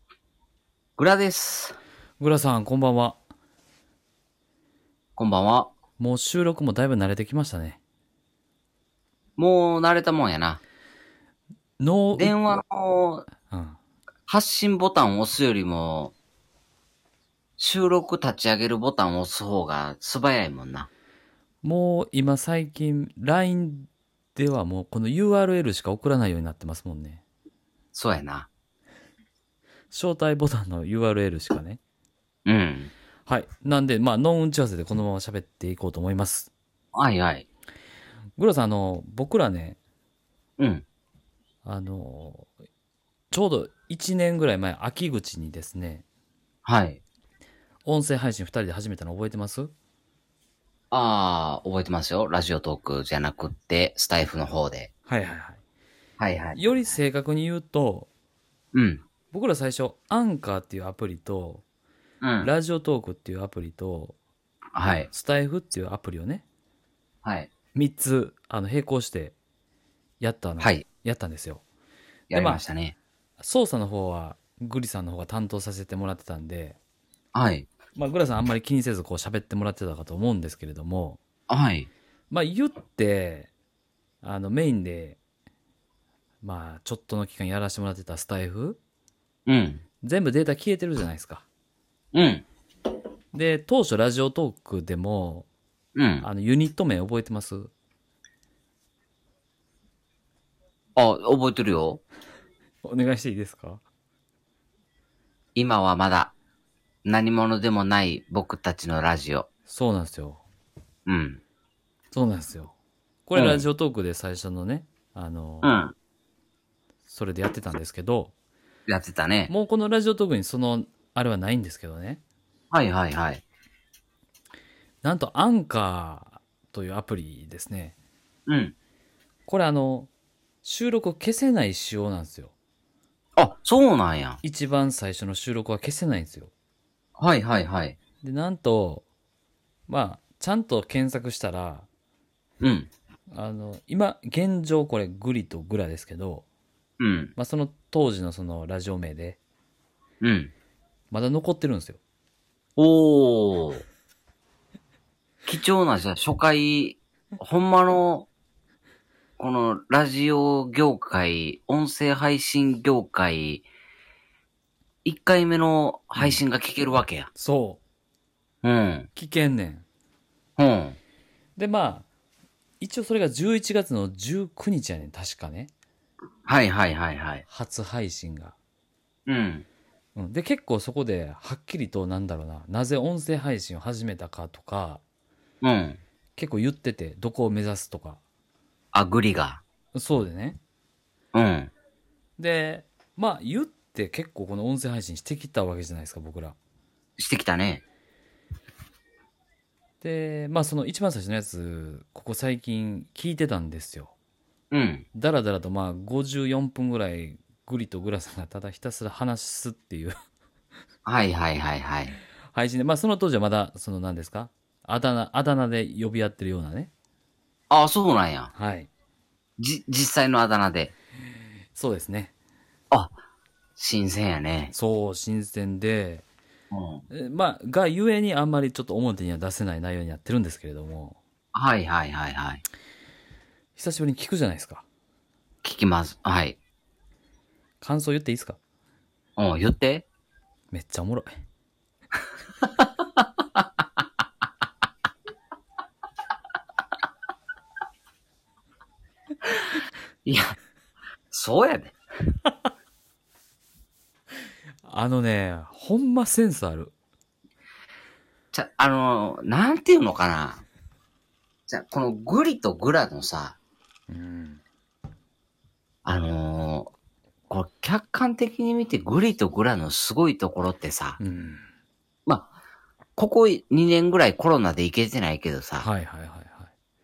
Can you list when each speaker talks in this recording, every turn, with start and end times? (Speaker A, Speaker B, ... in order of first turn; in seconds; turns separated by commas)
Speaker A: 1.0-1.8, Speaker B: 2.2-3.2, Speaker A: 5.2-5.7, Speaker B: 6.0-7.8, Speaker A: 9.4-10.6, Speaker B: 11.8-12.3, Speaker A: 12.2-13.3, Speaker B: 13.5-13.8, Speaker A: 14.3-16.1, Speaker A: 17.6-20.9, Speaker B: 21.6-27.2, Speaker A: 27.9-28.5, Speaker B: 29.9-31.8, Speaker A: 32.5-32.9, Speaker B: 33.3-36.5, Speaker A: 36.9-37.5, Speaker B: 38.4-39.8, Speaker A: 40.6-40.8, Speaker B: 41.6-42.5, Speaker B: 43.3-46.0, Speaker A: 46.6-47.0, Speaker B: 47.8-49.7, Speaker A: 50.9-54.9, Speaker B: 55.1-55.6, Speaker A: 56.2-56.6, Speaker B: 56.5-58.1, Speaker A: 58.7-59.0, Speaker B: 59.3-61.6, Speaker A: 62.2-62.5, Speaker B: 62.4-64.2, Speaker A: 64.7-65.1, Speaker B: 65.1-66.4, Speaker A: 67.2-67.5, Speaker B: 67.7-69.3, Speaker B: 70.2-71.6, Speaker A: 70.6-70.8, Speaker A: 72.3-73.0, Speaker B: 72.3-72.6, Speaker B: 73.4-76.8, Speaker A: 77.3-77.7, Speaker B: 77.9-81.2, Speaker A: 81.5-81.9, Speaker B: 82.3-83.5, Speaker B: 84.2-85.2, Speaker B: 86.4-88.8, Speaker A: 89.5-89.8, Speaker B: 90.0-91.4, Speaker A: 92.1-92.4, Speaker B: 93.3-95.5, Speaker A: 95.9-96.2, Speaker B: 96.2-97.7, Speaker A: 101.0-102.0, Speaker B: 102.8-103.8, Speaker A: 105.5-106.3, Speaker A: 107.0-109.5, Speaker B: 109.7-110.4, Speaker A: 111.1-111.4, Speaker B: 112.1-112.7, Speaker B: 113.2-115.7, Speaker A: 113.3-113.6, Speaker A: 115.6-115.9, Speaker B: 117.1-118.3, Speaker A: 118.9-119.5, Speaker B: 119.5-122.2, Speaker A: 122.7-123.4, Speaker B: 125.0-127.9, Speaker A: 128.5-128.7, Speaker B: 129.5-130.1, Speaker B: 130.6-132.5, Speaker A: 133.4-134.4, Speaker B: 134.4-136.5, Speaker A: 137.2-138.0, Speaker B: 138.2-139.0, Speaker B: 139.9-141.9, Speaker A: 142.6-142.9, Speaker B: 143.3-146.4, Speaker A: 147.0-147.3, Speaker B: 147.3-149.4, Speaker A: 150.2-150.5, Speaker B: 151.1-152.0, Speaker A: 152.8-153.8, Speaker A: 155.4-158.3, Speaker A: 159.4-163.7, Speaker A: 165.0-167.3, Speaker B: 167.3-167.8, Speaker A: 168.6-169.1, Speaker B: 169.2-169.8, Speaker A: 170.6-171.0, Speaker B: 171.6-172.1, Speaker B: 172.8-175.7, Speaker A: 176.4-177.4, Speaker B: 177.5-178.6, Speaker A: 179.3-179.7, Speaker B: 180.2-185.0, Speaker A: 185.6-186.0, Speaker B: 186.3-188.2, Speaker A: 188.9-189.6, Speaker B: 189.9-190.6, Speaker A: 191.3-191.7, Speaker B: 192.4-196.6, Speaker A: 197.2-197.8, Speaker B: 200.0-204.1, Speaker A: 204.7-205.0, Speaker B: 205.1-210.2, Speaker A: 211.1-212.2, Speaker B: 212.5-216.9, Speaker A: 217.7-218.5, Speaker B: 218.5-218.9, Speaker A: 219.6-220.9, Speaker B: 221.7-222.3, Speaker A: 223.8-224.7, Speaker B: 224.7-226.2, Speaker A: 226.7-227.0, Speaker B: 227.1-231.2, Speaker A: 231.5-232.6, Speaker B: 233.8-234.8, Speaker A: 235.6-236.6, Speaker B: 237.8-238.6, Speaker A: 239.4-240.1, Speaker B: 240.7-241.3, Speaker A: 250.2-250.6, Speaker A: 251.3-252.0, Speaker B: 254.8-256.9, Speaker A: 258.5-260.6, Speaker A: 261.7-263.6, Speaker B: 264.1-264.6, Speaker A: 266.0-266.9, Speaker A: 267.5-271.2, Speaker B: 271.2-271.6, Speaker A: 273.2-275.9, Speaker B: 275.8-276.7